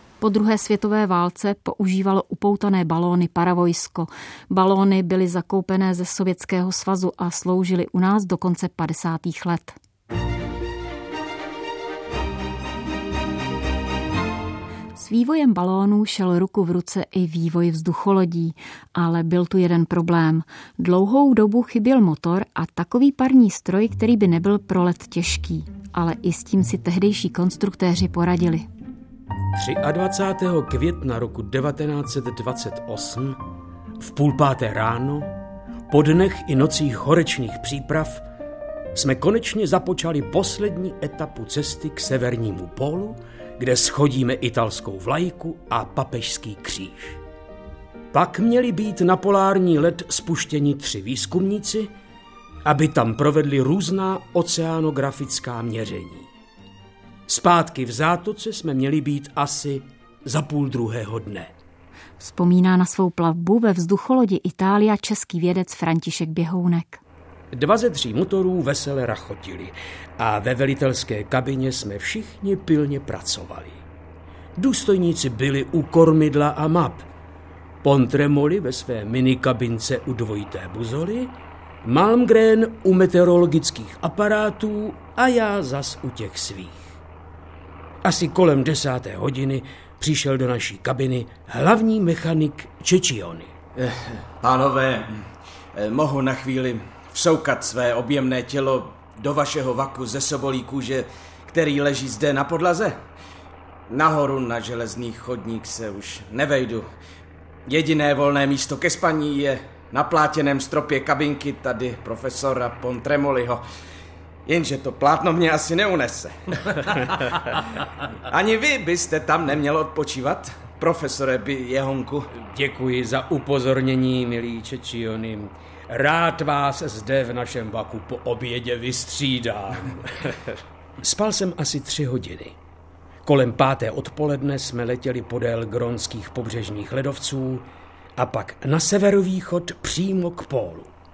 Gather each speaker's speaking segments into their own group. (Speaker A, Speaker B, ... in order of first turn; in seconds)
Speaker A: 0.2-9.8, 15.0-28.7, 62.2-67.0
Speaker B: 29.6-33.4, 34.0-35.3, 35.9-38.2, 39.0-47.2, 48.1-51.9, 52.6-56.3, 57.3-61.5, 67.5-73.8, 74.6-77.0, 77.8-81.3, 81.8-86.9, 88.0-93.5, 122.3-130.5, 131.0-132.6, 133.2-140.9
Speaker C: 93.8-103.0, 103.9-106.9, 107.7-113.6, 114.5-117.1, 118.3-122.3